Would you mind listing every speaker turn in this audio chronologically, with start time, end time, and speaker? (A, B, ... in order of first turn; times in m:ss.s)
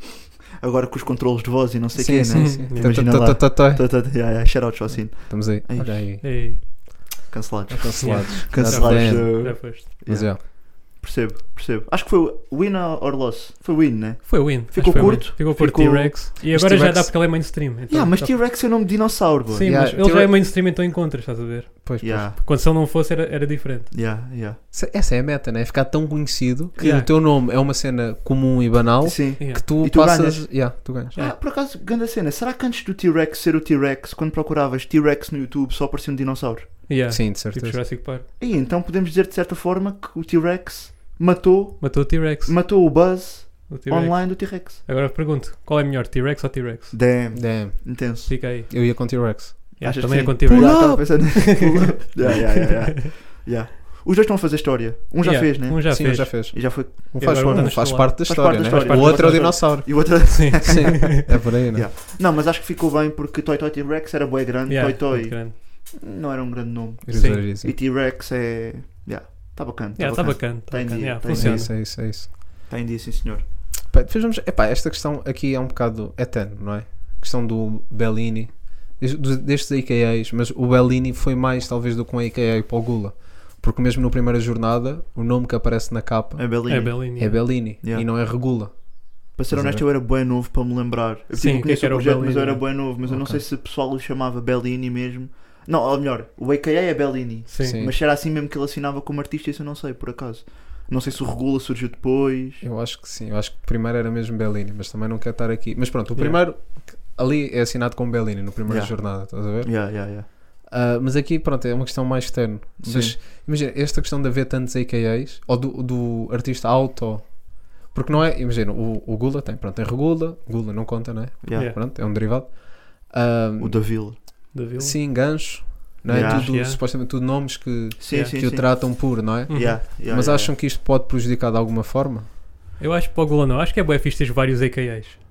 0:00.6-0:16.4 A
0:02.0-0:03.9 B
0:02.3-0:03.1 C
0:05.3-0:06.4 B
0:06.2-0:07.1 C
0:07.7-0:10.4 B
0:08.0-0:09.8 C
0:14.3-0:18.4 C
0:16.5-0:17.1 B
0:17.9-0:19.7 A
0:19.5-0:23.9 C
0:19.6-0:20.3 B
0:21.8-0:22.3 B
0:22.0-0:22.4 A
0:23.9-0:24.6 A
0:24.7-0:31.1 B
0:26.8-0:27.1 C
0:29.0-0:36.8 A
0:36.9-0:38.3 C
0:37.1-0:37.8 B
0:38.3-0:44.8 A
0:41.8-0:42.7 C
0:43.7-0:47.0 C
0:46.9-0:48.4 A
0:47.3-0:49.8 B
0:48.3-0:53.1 C
0:49.8-1:13.5 A
0:50.5-0:51.4 B
0:55.2-1:01.2 C
0:55.9-1:01.9 B
1:04.7-1:05.5 C
1:07.0-1:07.8 B
1:07.1-1:07.4 C
1:10.0-1:11.7 C
1:11.3-1:12.3 B
1:13.9-1:29.8 B
1:26.4-1:28.1 A
1:26.7-1:27.5 C
1:29.3-1:42.6 A
1:31.3-1:32.7 C
1:33.0-1:33.4 B
1:37.5-1:37.8 C
1:37.6-1:37.9 B
1:42.6-1:50.0 B
1:46.2-1:46.4 C
1:48.7-1:50.3 A
1:50.6-2:03.9 B
1:52.8-1:53.2 A
2:01.4-2:01.7 A
2:01.5-2:01.8 C
2:03.6-2:04.4 A
2:04.5-2:05.0 C
2:04.8-2:12.3 B
2:06.1-2:06.6 A
2:06.1-2:06.8 C
2:08.0-2:10.5 A
2:08.1-2:08.4 C
2:09.5-2:09.8 C
2:12.8-2:15.2 C